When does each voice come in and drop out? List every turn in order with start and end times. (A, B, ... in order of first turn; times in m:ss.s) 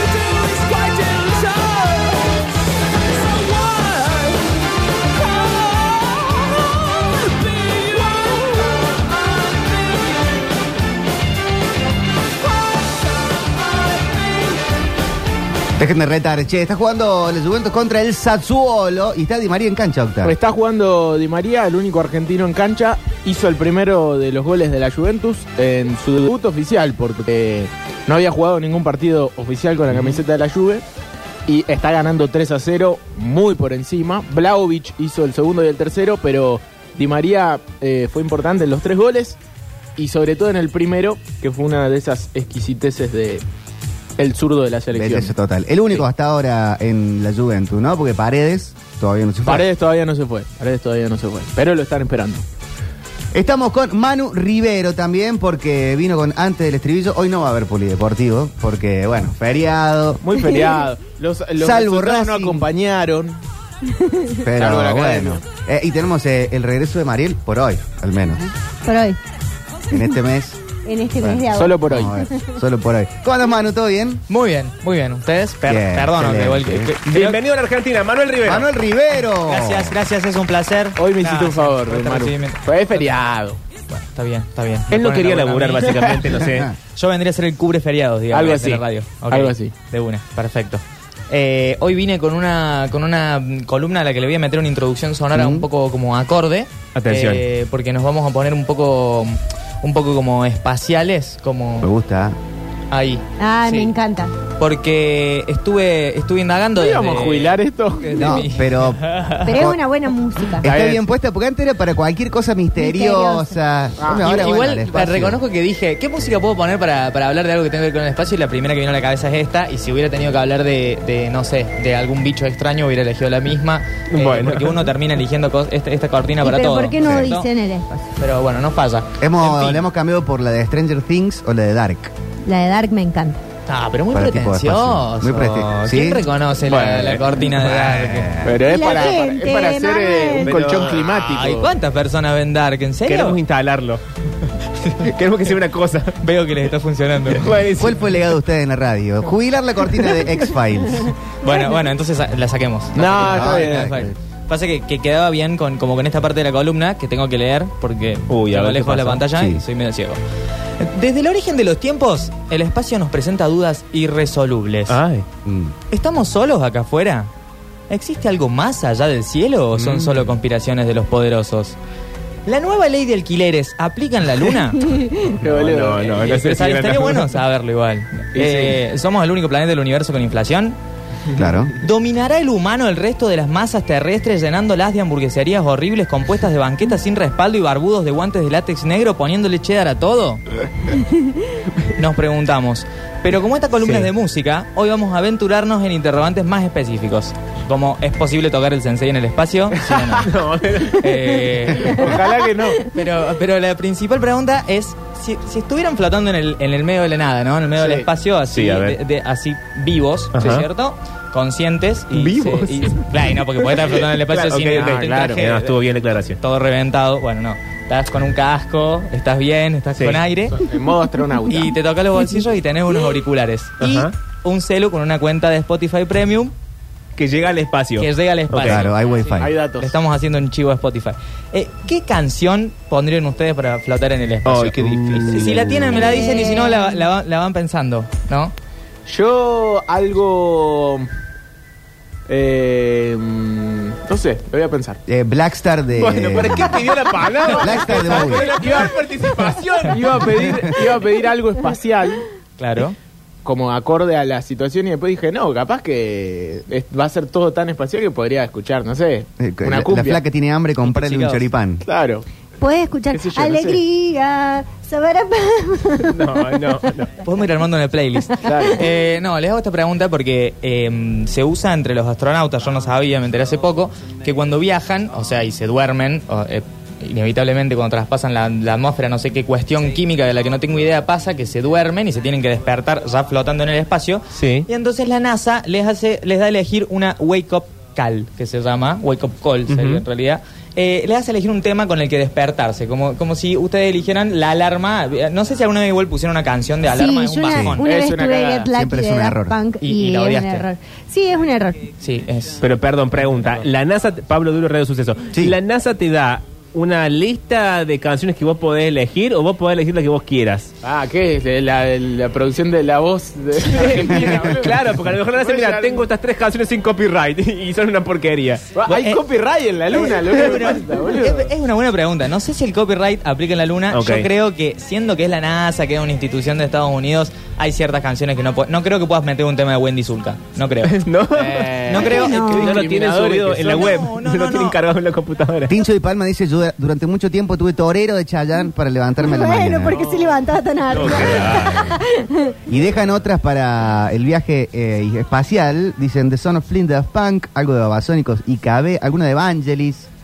0:15.8-0:20.4 A
0:20.2-0:30.8 B
0:31.5-0:39.4 B
0:40.0-0:43.4 B
0:44.2-0:45.3 B
0:44.9-0:49.7 A
0:49.4-0:52.4 B
0:53.3-1:00.2 A
1:00.2-1:03.4 B
1:00.4-1:00.8 C
1:01.6-1:02.6 A
1:03.9-1:04.4 C
1:04.4-1:08.5 A
1:04.6-1:05.4 B
1:08.8-1:09.2 C
1:09.9-1:10.6 A
1:10.8-1:11.8 C
1:11.2-1:14.2 A
1:11.6-1:12.1 B
1:14.3-1:17.4 D
1:15.6-1:17.0 A
1:17.1-1:18.7 E
1:18.4-1:20.0 A
1:19.4-1:23.2 D
1:21.0-1:23.6 B
1:23.9-1:26.1 D
1:24.9-1:26.7 E
1:26.4-1:26.7 A
1:27.0-1:41.9 D
1:28.3-1:29.7 B
1:35.3-1:35.7 A
1:37.0-1:37.4 E
1:41.8-1:42.4 A
1:42.9-1:43.9 D
1:43.4-1:44.3 C
1:44.5-1:49.5 D
1:46.8-1:48.3 B
1:48.2-1:49.8 A
1:49.4-1:50.7 C
1:50.6-1:55.4 A
1:50.6-1:51.0 B
1:52.8-1:53.6 C
1:54.0-1:54.3 B
1:54.2-2:07.5 D
2:04.1-2:04.9 E
2:06.4-2:08.1 C
2:07.0-2:07.3 A
2:08.2-2:09.8 D
2:09.2-2:12.1 A
2:12.4-2:13.4 C
2:13.7-2:18.4 D
2:14.1-2:16.2 A
2:16.7-2:17.2 E
2:16.8-2:17.2 B
2:17.6-2:18.6 A
2:18.4-2:21.7 B
2:18.6-2:20.6 C
2:20.4-2:21.0 E
2:21.0-2:23.4 D
2:23.0-2:24.0 E
2:25.0-2:26.1 E
2:26.2-2:27.5 D
2:27.3-2:28.1 E
2:27.8-2:31.1 A
2:31.4-2:40.2 D
2:32.9-2:34.1 B
2:33.3-2:33.9 A
2:38.3-2:39.2 E
2:39.3-2:39.6 A
2:40.8-2:45.0 D
2:44.9-2:45.2 E
2:45.4-2:45.7 A
2:45.9-2:47.3 D
2:47.9-2:51.8 D
2:49.8-2:50.3 E
2:52.4-2:54.9 D
2:55.4-2:56.3 B
2:55.4-2:57.4 E
2:56.2-3:00.8 D
2:58.3-2:58.8 B
3:01.3-3:01.7 A
3:01.8-3:10.4 D
3:11.9-3:20.3 D
3:13.8-3:14.1 E
3:20.2-3:21.4 E
3:20.8-3:22.1 D
3:21.8-3:22.8 B
3:22.9-3:35.8 D
3:27.8-3:28.1 B
3:28.5-3:29.0 E
3:30.3-3:30.7 E
3:32.1-3:36.4 E
3:36.4-3:40.6 D
3:40.0-3:40.2 E
3:40.5-3:41.7 B
3:41.5-3:46.5 D
3:43.8-3:44.1 E
3:47.2-3:48.8 E
3:48.0-3:58.5 D
3:48.7-3:49.5 A
3:49.4-3:50.0 B
3:54.4-3:56.0 E
3:55.9-3:57.0 C
3:59.1-4:01.1 B
4:02.3-4:05.0 B
4:05.1-4:06.8 A
4:06.0-4:10.6 E
4:07.2-4:12.2 B
4:07.6-4:08.5 A
4:12.6-4:13.0 D
4:13.4-4:20.2 B
4:19.4-4:21.8 A
4:20.8-4:21.5 D
4:21.8-4:22.2 B
4:22.6-4:26.4 C
4:23.1-4:23.8 B
4:26.0-4:27.1 E
4:27.2-4:57.9 D
4:28.4-4:28.8 B
4:44.3-4:44.7 E
4:49.7-4:50.0 E
4:56.9-5:01.9 C
4:57.5-4:57.8 A
4:57.8-4:58.7 B
4:58.7-4:59.6 A
4:59.8-5:00.6 D
5:02.0-5:02.6 D
5:02.6-5:10.7 E
5:10.8-5:16.1 B
5:13.7-5:18.9 E
5:18.7-5:21.5 B
5:18.9-5:19.2 D
5:19.9-5:32.4 D
5:23.9-5:24.3 E
5:30.8-5:35.7 E
5:31.7-5:33.9 B
5:32.0-5:32.8 C
5:33.6-5:34.8 D
5:35.7-5:40.0 A
5:39.2-5:42.6 C
5:40.9-5:42.0 E
5:41.0-5:41.7 A
5:42.7-5:50.1 A